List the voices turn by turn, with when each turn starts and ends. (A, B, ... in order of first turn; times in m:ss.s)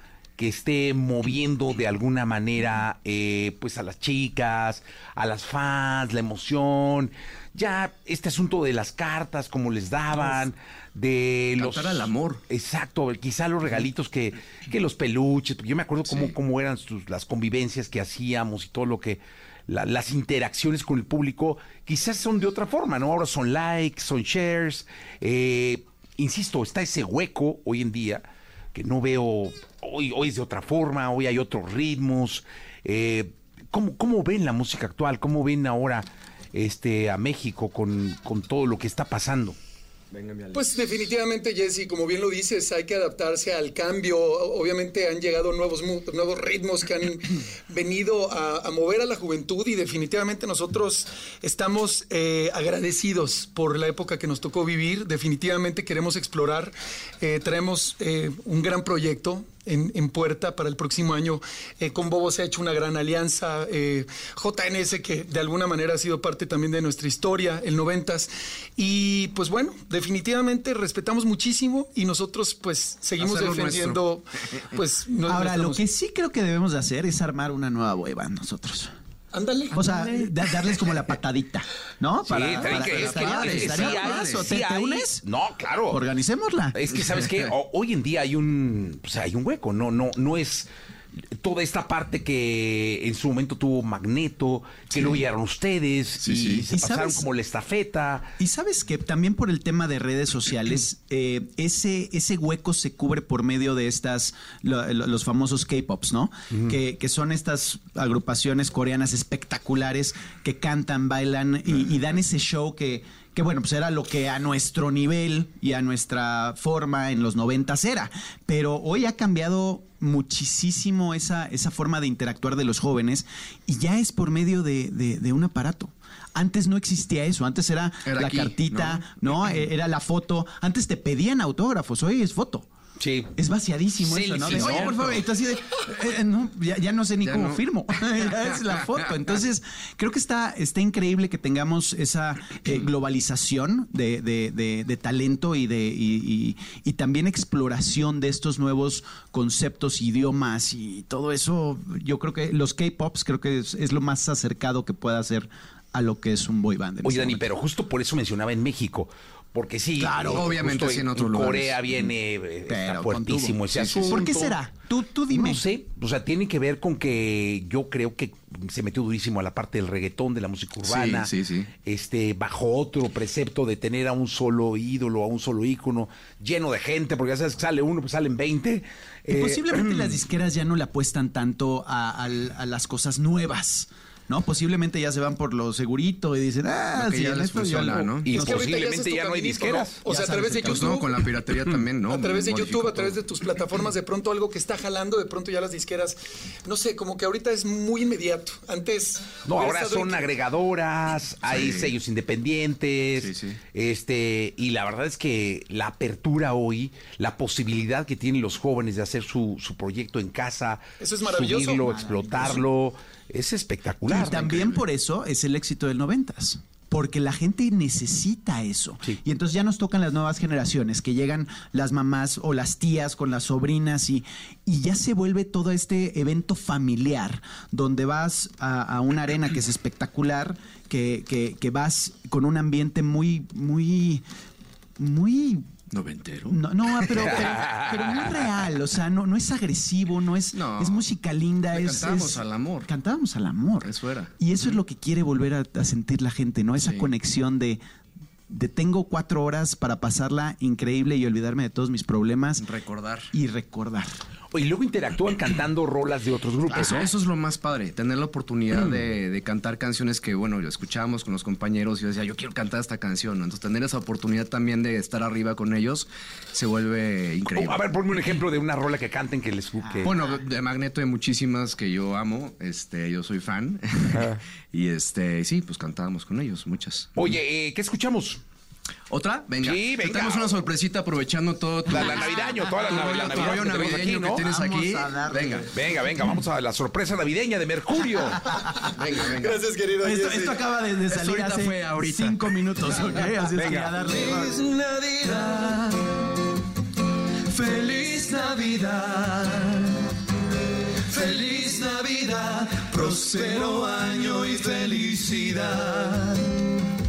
0:00.4-0:39.6 A
0:10.2-0:10.4 B
0:11.6-0:12.4 B
0:16.1-0:16.3 B
0:40.1-0:41.1 B
0:40.5-1:15.8 C
1:13.2-1:14.0 B
1:15.2-1:18.9 D
1:19.3-1:19.8 C
1:19.7-1:25.2 D
1:19.9-1:20.2 B
1:22.3-1:26.0 A
1:22.4-1:24.5 B
1:25.9-1:26.7 D
1:26.7-1:30.7 A
1:31.4-1:38.3 A
1:36.2-1:36.7 B
1:36.7-1:37.2 D
1:38.4-2:12.7 D
2:08.0-2:09.6 B
2:13.0-2:13.3 A
2:13.4-2:37.5 D
2:14.0-2:15.1 A
2:14.4-2:15.2 B
2:17.2-2:19.0 B
2:37.0-2:44.6 A
2:40.0-2:40.6 D
2:40.3-2:42.1 B
2:42.6-2:45.6 D
2:43.6-2:44.4 B
2:45.3-2:51.3 A
2:50.8-2:51.7 B
2:51.8-3:00.2 A
2:59.3-3:08.6 D
3:06.9-3:08.6 B
3:08.3-3:10.0 A
3:08.3-3:11.1 C
3:10.0-3:11.0 D
3:10.5-3:13.8 B
3:12.1-3:20.3 C
3:19.4-3:34.8 A
3:21.4-3:22.0 B
3:23.2-3:23.6 B
3:31.0-3:31.9 C
3:31.7-3:32.6 D
3:34.0-3:54.2 D
3:55.0-3:55.7 D
3:55.9-3:57.5 B
3:56.5-4:07.8 D
3:57.2-3:58.3 A
4:00.5-4:01.1 B
4:01.7-4:02.9 B
4:03.8-4:04.8 B
4:06.8-4:07.1 B
4:08.5-4:12.7 D
4:12.6-4:13.3 B
4:13.3-4:14.1 D
4:14.5-4:17.1 A
4:16.7-4:27.9 B
4:27.5-4:30.2 A
4:29.8-4:30.4 D
4:30.0-4:37.3 B
4:37.1-4:38.4 A
4:39.1-4:45.7 B
4:39.6-4:40.5 A
4:41.9-4:44.4 A
4:43.3-4:43.7 D
4:44.4-4:45.7 D
4:45.7-4:48.4 A
4:48.9-4:49.7 B
4:49.4-4:50.6 C
4:50.0-4:54.6 D
4:51.0-4:53.2 B
4:53.5-4:53.9 A
4:54.0-4:56.2 E
4:57.5-5:00.0 E
5:01.1-5:06.5 E